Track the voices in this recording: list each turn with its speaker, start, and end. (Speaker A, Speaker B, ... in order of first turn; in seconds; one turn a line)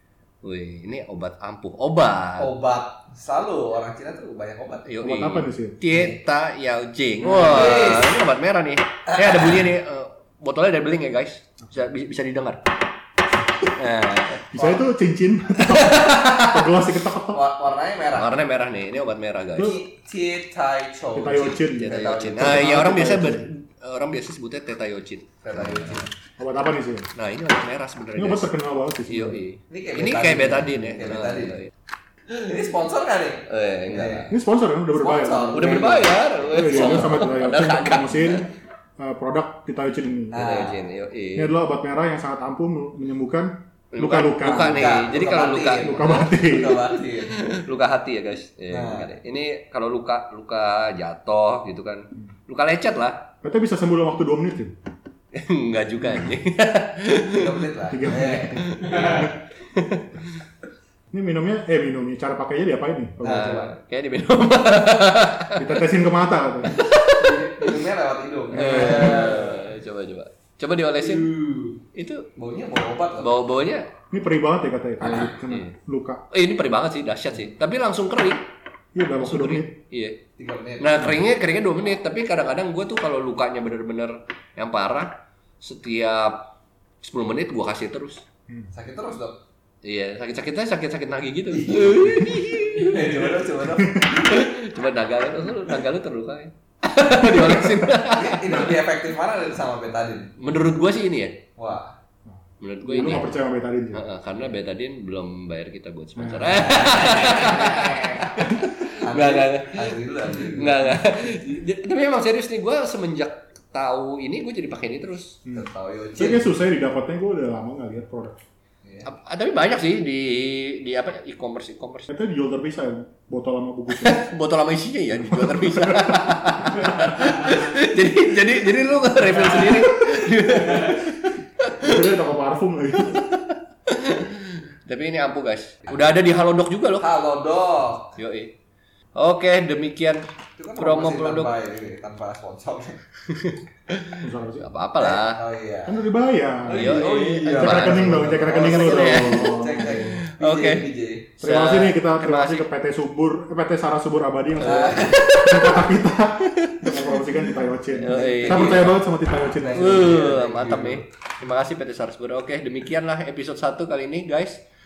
Speaker A: 0.4-2.5
Speaker B: 2.4-4.9
Speaker A: 4.9-12.6
Speaker C: 5.0-5.8
Speaker B: 5.9-6.2
Speaker C: 7.3-7.6
Speaker B: 7.3-8.1
Speaker A: 13.8-14.7
Speaker C: 14.5-17.4
Speaker A: 15.6-16.7
Speaker B: 17.3-18.4
Speaker A: 18.1-19.8
Speaker B: 19.6-22.7
Speaker C: 21.1-23.5
Speaker A: 21.8-26.1
Speaker B: 25.4-26.1
Speaker C: 26.4-27.1
Speaker A: 27.2-28.5
Speaker C: 28.1-29.4
Speaker A: 29.1-31.7
Speaker B: 29.7-31.7
Speaker B: 32.4-34.3
Speaker A: 33.5-34.3
Speaker C: 34.3-40.5
Speaker B: 34.9-37.2
Speaker A: 35.5-38.5
Speaker B: 40.3-40.9
Speaker A: 40.3-41.6
Speaker C: 41.4-45.1
Speaker A: 43.9-46.4
Speaker B: 44.5-47.4
Speaker C: 45.8-46.8
Speaker A: 47.4-53.3
Speaker B: 48.7-49.1
Speaker C: 53.4-54.8
Speaker A: 55.3-57.5
Speaker B: 57.3-59.2
Speaker C: 57.9-59.3
Speaker A: 58.3-60.2
Speaker C: 61.1-63.5
Speaker B: 63.2-63.8
Speaker A: 63.2-65.9
Speaker C: 65.5-66.8
Speaker A: 66.7-67.8
Speaker B: 67.2-69.6
Speaker A: 68.5-71.3
Speaker B: 71.0-71.8
Speaker A: 71.9-72.3
Speaker B: 72.4-73.4
Speaker A: 73.2-73.9
Speaker C: 74.1-76.2
Speaker A: 75.0-75.7
Speaker B: 75.0-75.3
Speaker A: 76.3-78.5
Speaker C: 79.0-79.8
Speaker A: 79.2-80.2
Speaker B: 80.4-81.1
Speaker A: 80.8-86.5
Speaker A: 87.0-88.2
Speaker B: 88.7-89.4
Speaker A: 89.8-93.3
Speaker B: 91.5-94.3
Speaker C: 93.8-94.1
Speaker A: 94.1-98.8
Speaker B: 98.1-100.3
Speaker A: 100.4-101.4
Speaker B: 101.6-101.9
Speaker C: 102.3-104.0
Speaker A: 102.6-103.4
Speaker A: 103.9-115.4
Speaker C: 106.2-106.9
Speaker B: 106.6-111.0
Speaker C: 115.5-118.4
Speaker B: 115.5-116.5
Speaker B: 118.8-119.1
Speaker A: 119.1-122.1
Speaker C: 122.1-124.3
Speaker A: 123.9-132.0
Speaker C: 125.3-126.3
Speaker C: 131.8-133.3
Speaker A: 133.1-137.1
Speaker B: 137.0-138.2
Speaker A: 138.2-138.5
Speaker A: 139.2-141.5
Speaker B: 140.6-143.0
Speaker A: 143.3-145.4
Speaker C: 144.2-144.7
Speaker B: 145.0-146.0
Speaker C: 145.9-150.2
Speaker A: 146.7-150.8
Speaker B: 146.7-151.3
Speaker A: 151.4-152.7
Speaker C: 151.4-160.2
Speaker B: 154.6-155.4
Speaker A: 154.6-155.9
Speaker A: 156.5-159.1
Speaker B: 158.0-161.1
Speaker A: 159.7-164.6